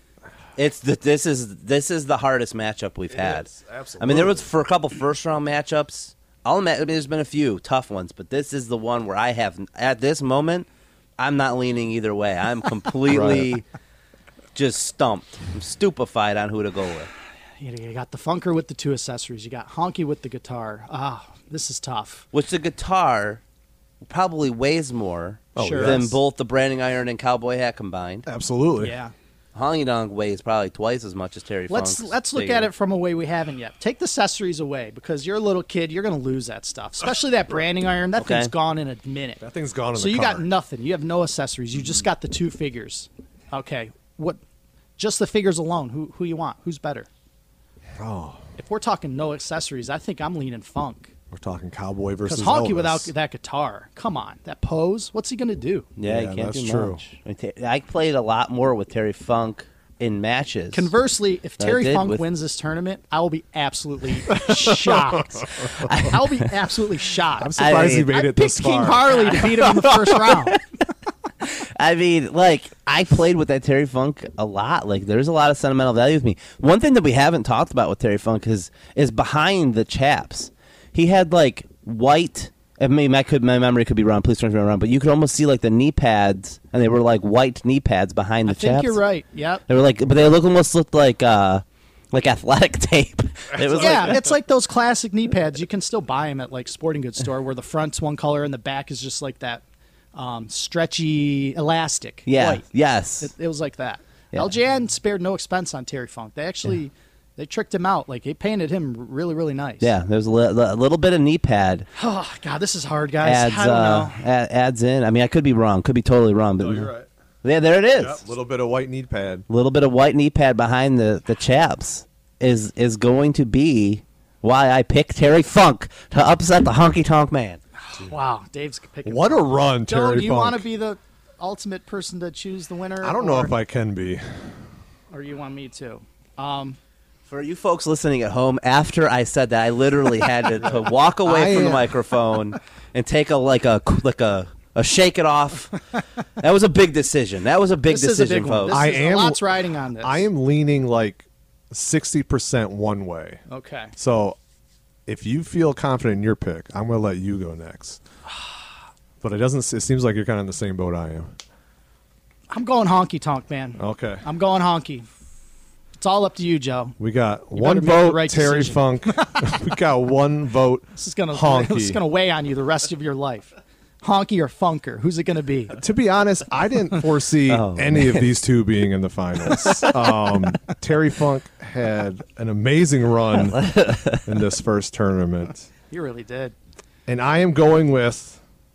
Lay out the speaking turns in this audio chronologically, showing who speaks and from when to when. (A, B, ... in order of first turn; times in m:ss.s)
0:00.6-0:10.7 A
0:03.1-0:04.5 B
0:11.2-0:13.6 A
0:13.1-0:13.5 B
0:14.5-0:17.1 A
0:17.6-0:22.2 C
0:22.3-0:23.4 A
0:24.0-0:28.2 A
0:25.5-0:26.2 B
0:25.6-0:26.0 C
0:28.2-0:28.9 B
0:28.8-0:29.1 C
0:29.5-0:32.7 A
0:31.7-0:39.4 C
0:38.2-0:38.5 A
0:39.4-0:40.5 B
0:39.9-0:44.4 C
0:45.0-0:47.1 C
0:48.0-0:48.4 B
0:48.6-0:51.1 C
0:51.3-0:53.1 B
0:52.2-0:55.9 C
0:56.0-1:00.9 A
0:56.0-0:57.0 B
1:00.7-1:10.6 C
1:01.6-1:02.2 A
1:04.3-1:06.0 B
1:05.8-1:06.2 A
1:07.4-1:09.9 B
1:07.6-1:08.1 A
1:10.1-1:10.6 A
1:11.4-1:29.0 A
1:28.4-1:29.6 C
1:29.7-1:34.2 A
1:33.5-1:34.1 B
1:33.8-1:39.6 C
1:40.1-1:42.6 C
1:42.2-1:43.3 A
1:43.2-1:49.9 C
1:49.8-1:51.9 A
1:52.0-1:54.2 C
1:53.2-1:56.9 A
1:56.6-1:57.1 B
1:57.4-1:58.2 A
1:58.0-1:59.4 B
1:59.5-2:07.6 A
2:07.8-2:13.5 C
2:09.0-2:10.6 B
2:13.0-2:14.6 B
2:15.1-2:16.8 C
2:17.3-2:25.9 A
2:21.2-2:21.9 B
2:26.4-2:28.8 A
2:27.9-2:30.3 C
2:28.7-2:33.4 B
2:33.5-2:33.9 C
2:34.0-2:34.4 B
2:35.0-2:38.0 B
2:39.2-2:41.3 B
2:42.5-2:45.1 C
2:43.8-2:44.2 B
2:46.0-2:47.0 C
2:47.0-2:52.0 B
2:47.5-2:49.5 C
2:51.0-2:55.8 C
2:55.8-3:05.7 B
2:57.5-2:58.3 A
3:03.5-3:04.2 A
3:05.9-3:06.5 C
3:07.1-3:08.4 B